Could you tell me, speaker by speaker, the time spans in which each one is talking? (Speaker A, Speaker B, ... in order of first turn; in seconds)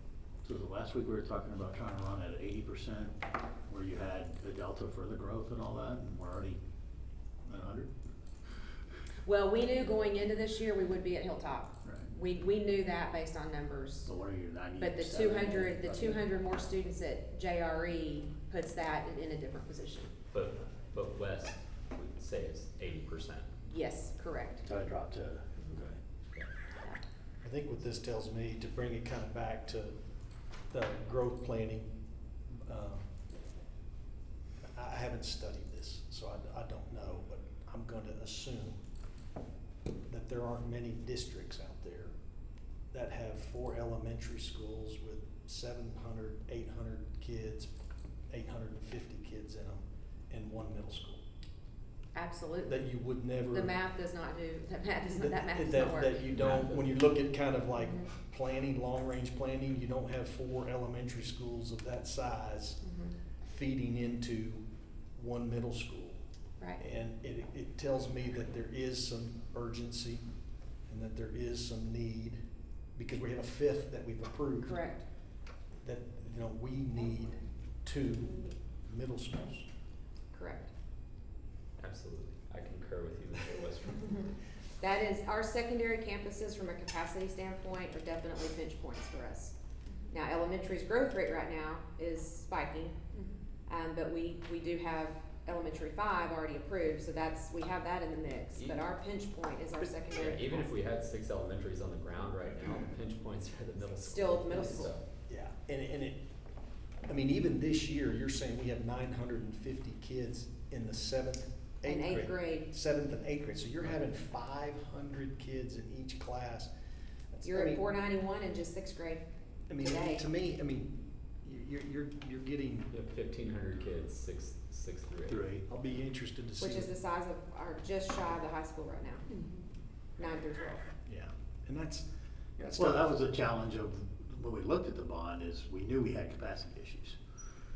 Speaker A: 0.4-3.2, 3.7-6.6, 7.5-8.1, 11.8-12.1, 14.1-16.3, 24.6-25.5, 125.3-125.6, 132.8-137.2
Speaker B: 9.2-14.1, 14.8-20.1, 23.6-24.7, 52.1-52.9, 53.5-56.3, 57.8-58.1, 62.8-63.1, 74.7-75.1, 80.3-80.7, 84.8-89.5, 90.1-93.0, 93.7-100.7, 104.0-104.9, 111.8-112.7, 117.4-119.2, 119.8-120.2, 126.6-129.3, 130.2-130.9
Speaker C: 20.3-23.5, 56.3-56.9, 81.8-84.3, 98.5-98.9, 100.0-105.0, 122.9-125.5
Speaker D: 27.4-29.9, 30.7-31.9, 32.5-33.0, 34.6-38.8, 40.1-42.1, 42.9-47.7, 48.3-51.2, 52.6-53.7, 55.1-62.8, 63.4-66.2, 66.8-70.2, 70.9-72.4, 72.9-74.8, 75.8-79.7, 105.3-106.2, 107.1-116.7, 117.3-117.8, 119.7-122.9, 125.6-126.9, 131.1-133.4